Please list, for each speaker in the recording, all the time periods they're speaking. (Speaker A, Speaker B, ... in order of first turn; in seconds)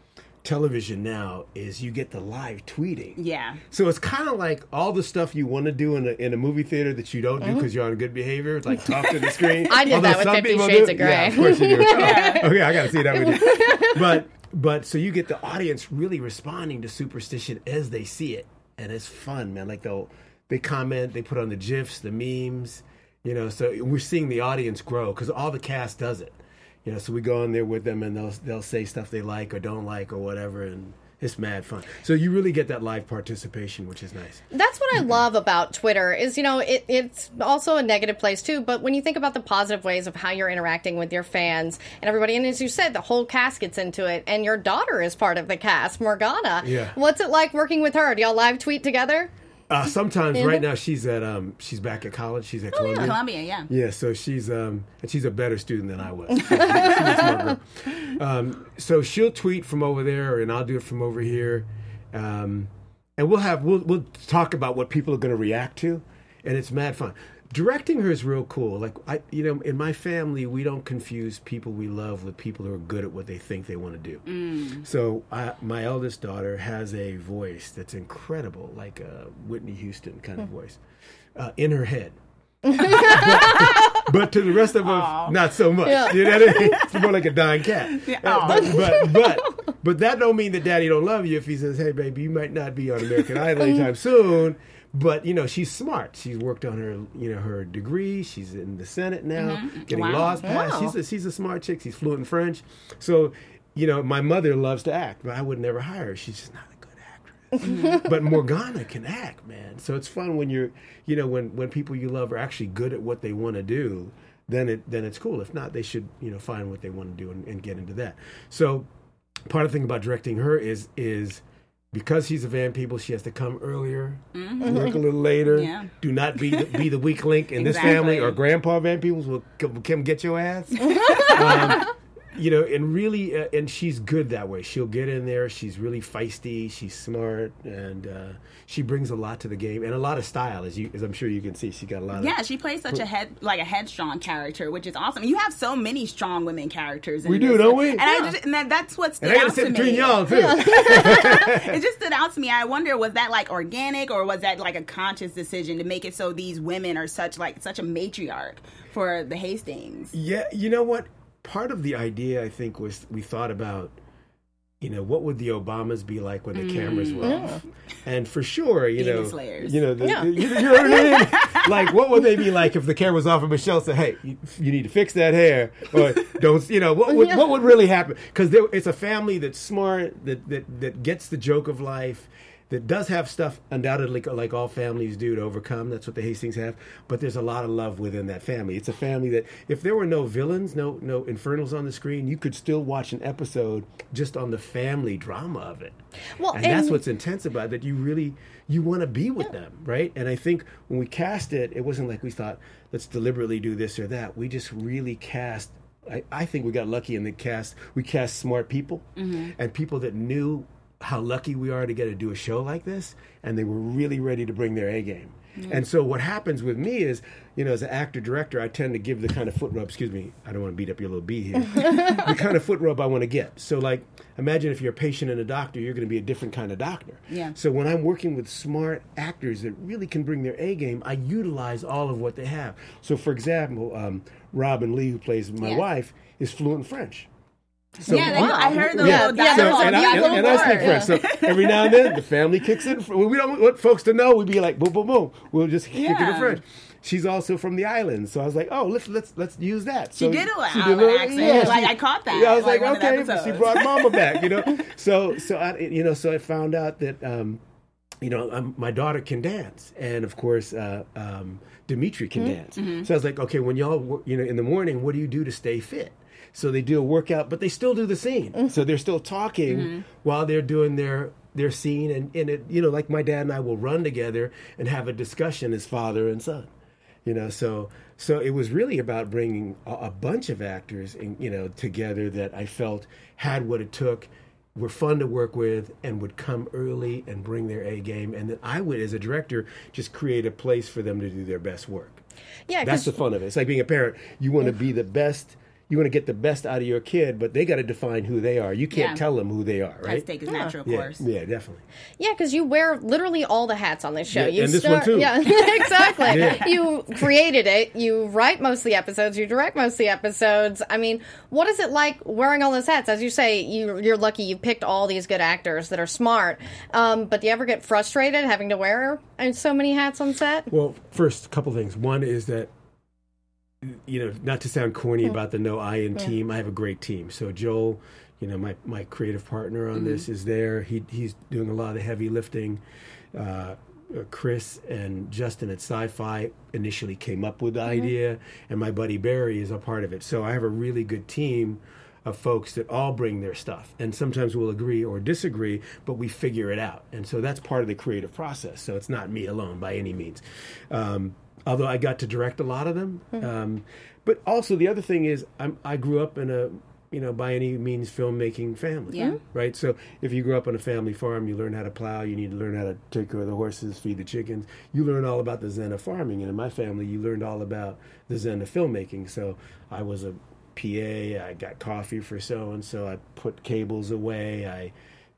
Speaker A: 0.4-3.2, 3.7-34.4, 46.6-47.0, 49.7-80.8, 81.3-82.2, 82.8-118.9, 119.5-142.3, 147.2-148.1, 149.2-151.8, 160.1-163.9, 164.8-196.0, 196.5-237.3, 238.0-257.6, 258.2-276.7, 277.2-292.2, 292.8-300.3, 300.8-301.8, 304.3-306.7, 320.7-322.7, 323.8-332.8, 333.3-374.9
Speaker B: 3.2-3.6, 9.0-9.5, 11.9-12.5, 52.8-53.7, 74.3-74.8, 83.2-83.6, 84.8-85.4, 86.2-87.1, 87.8-89.1, 99.4-100.5, 107.6-108.1, 124.3-125.0, 125.5-125.9, 127.6-128.4, 130.9-131.8, 142.2-160.1, 166.6-167.5, 169.0-169.8, 170.4-171.7, 209.2-209.5, 215.6-215.8, 227.3-227.6, 238.0-242.2, 245.9-246.6, 250.2-254.6, 262.8-263.1, 269.7-270.0, 298.9-299.2, 300.0-301.2, 306.3-306.6, 329.9-330.2, 359.1-359.4
Speaker C: 9.7-14.2, 34.5-49.3, 50.4-50.6, 52.7-53.1, 56.6-57.4, 82.8-83.8, 85.8-86.5, 88.7-89.4, 100.5-100.9, 131.0-131.3, 150.3-150.9, 167.2-167.6, 170.0-170.3, 196.4-197.0, 238.1-241.1, 292.7-293.2, 302.2-320.7